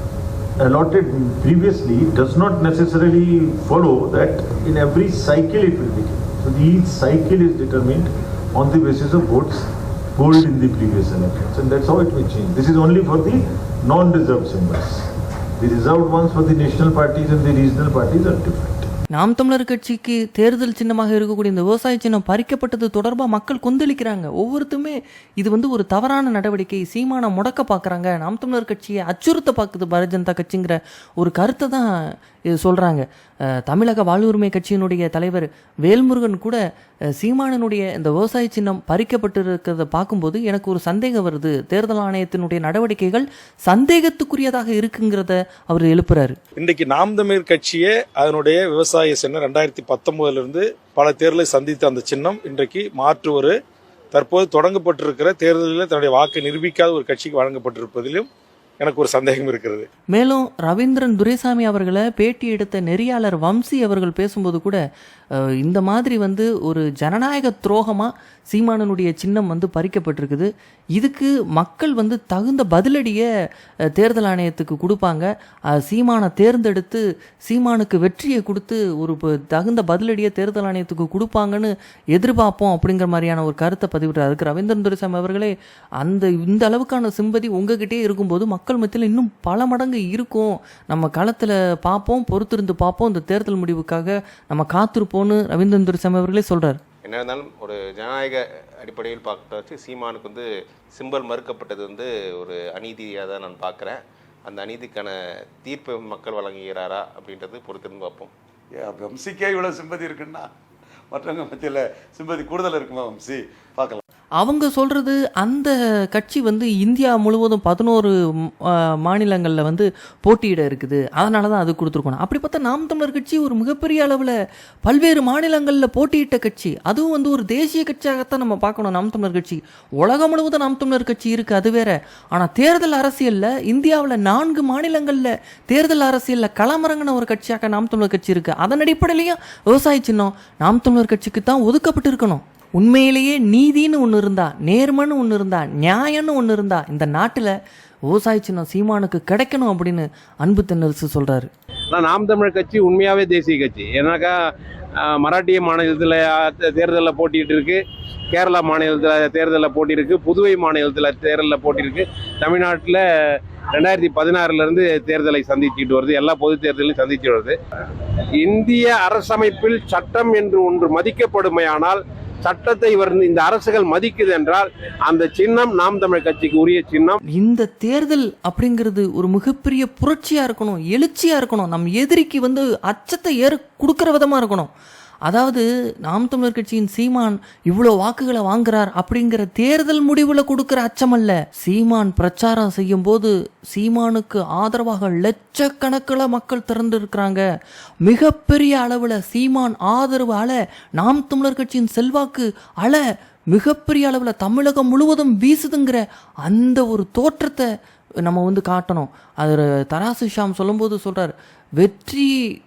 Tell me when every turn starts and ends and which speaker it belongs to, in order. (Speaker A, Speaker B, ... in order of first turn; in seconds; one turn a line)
Speaker A: 0.6-15.1
Speaker A: 15.6-18.9
Speaker B: 19.1-31.9
Speaker B: 32.5-36.6
Speaker B: 37.2-46.4
Speaker C: 46.6-53.5
Speaker C: 54.1-58.3
Speaker C: 58.8-59.9
Speaker B: 60.1-64.8
Speaker B: 65.4-73.2
Speaker B: 74.0-96.8
Speaker D: 97.0-108.3
Speaker E: 108.8-110.5
Speaker E: 111.1-114.0
Speaker B: 114.4-124.3
Speaker B: 124.8-147.5
Speaker B: 148.1-151.5
Speaker F: 151.9-154.3
Speaker F: 155.0-157.8
Speaker F: 158.3-163.0
Speaker F: 163.7-167.5
Speaker F: 168.4-177.1
Speaker B: 177.3-184.7
Speaker B: 185.3-197.4
Speaker B: 198.0-207.7
Speaker B: 208.2-212.3